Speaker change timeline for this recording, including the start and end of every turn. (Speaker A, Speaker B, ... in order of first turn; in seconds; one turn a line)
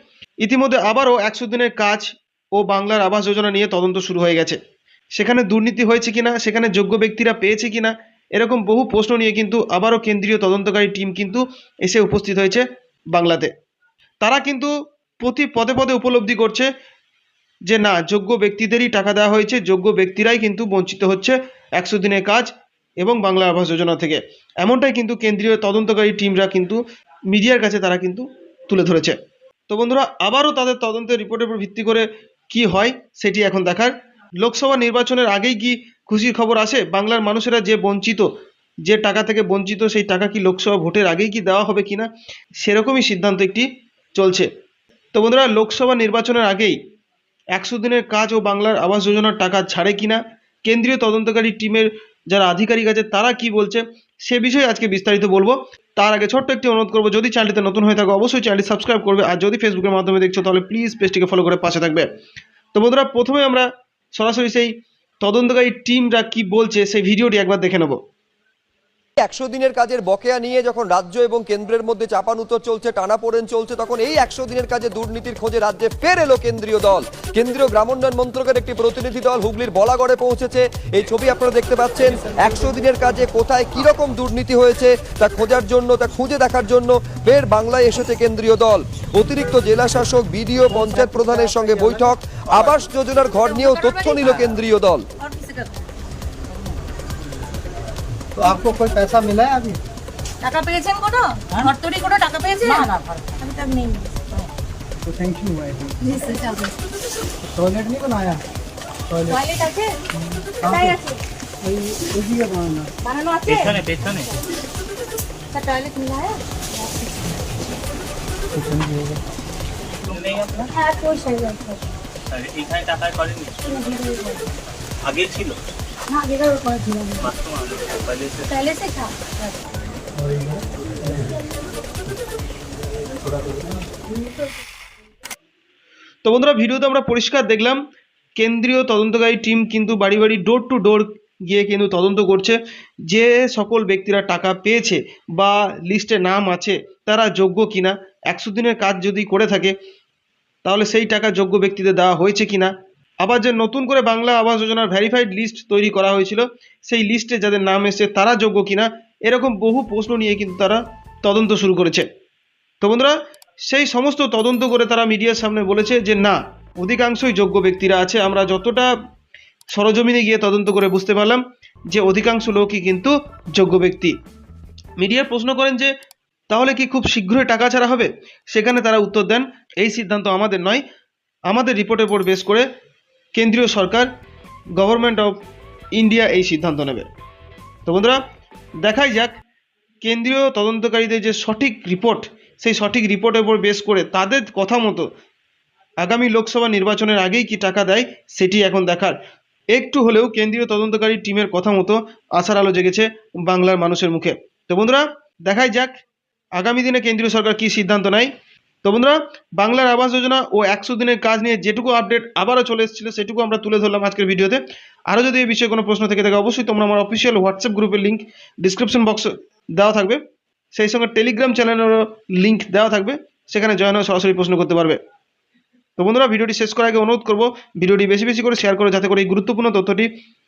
Speaker A: 0.4-4.6
Speaker A: 5.2-13.5
Speaker A: 14.2-16.7
Speaker A: 17.7-29.1
Speaker A: 29.7-38.3
Speaker A: 38.9-42.1
Speaker A: 42.6-44.5
Speaker A: 45.1-46.8
Speaker A: 47.5-62.1
Speaker A: 62.7-64.7
Speaker A: 65.2-68.0
Speaker B: 69.2-95.1
Speaker C: 93.5-94.2
Speaker C: 95.2-95.8
Speaker D: 98.3-99.8
Speaker C: 100.4-104.1
Speaker D: 105.0-106.0
Speaker C: 106.0-106.7
Speaker D: 107.4-108.4
Speaker D: 109.1-109.4
Speaker C: 109.3-110.0
Speaker D: 110.6-111.0
Speaker C: 110.6-111.2
Speaker D: 111.6-112.9
Speaker C: 113.0-113.8
Speaker E: 113.5-114.3
Speaker C: 115.5-117.4
Speaker D: 118.5-119.2
Speaker E: 120.0-120.7
Speaker C: 120.7-121.9
Speaker E: 122.3-123.6
Speaker C: 123.6-124.5
Speaker E: 125.0-125.6
Speaker C: 126.1-127.3
Speaker E: 127.2-128.6
Speaker C: 128.4-129.3
Speaker A: 136.2-137.8
Speaker A: 138.4-142.6
Speaker A: 143.1-149.7
Speaker A: 150.6-162.1
Speaker A: 162.8-163.1
Speaker A: 163.7-168.9
Speaker A: 169.7-174.1
Speaker A: 175.0-175.9
Speaker A: 176.5-180.8
Speaker A: 181.5-182.7
Speaker A: 183.3-184.1
Speaker A: 184.8-185.4
Speaker A: 186.0-187.1
Speaker A: 187.8-188.2
Speaker A: 188.8-189.3
Speaker A: 190.0-195.1
Speaker A: 196.0-199.1
Speaker A: 199.7-205.9
Speaker A: 206.6-208.3
Speaker A: 208.8-220.2
Speaker A: 220.7-225.0
Speaker A: 226.0-230.1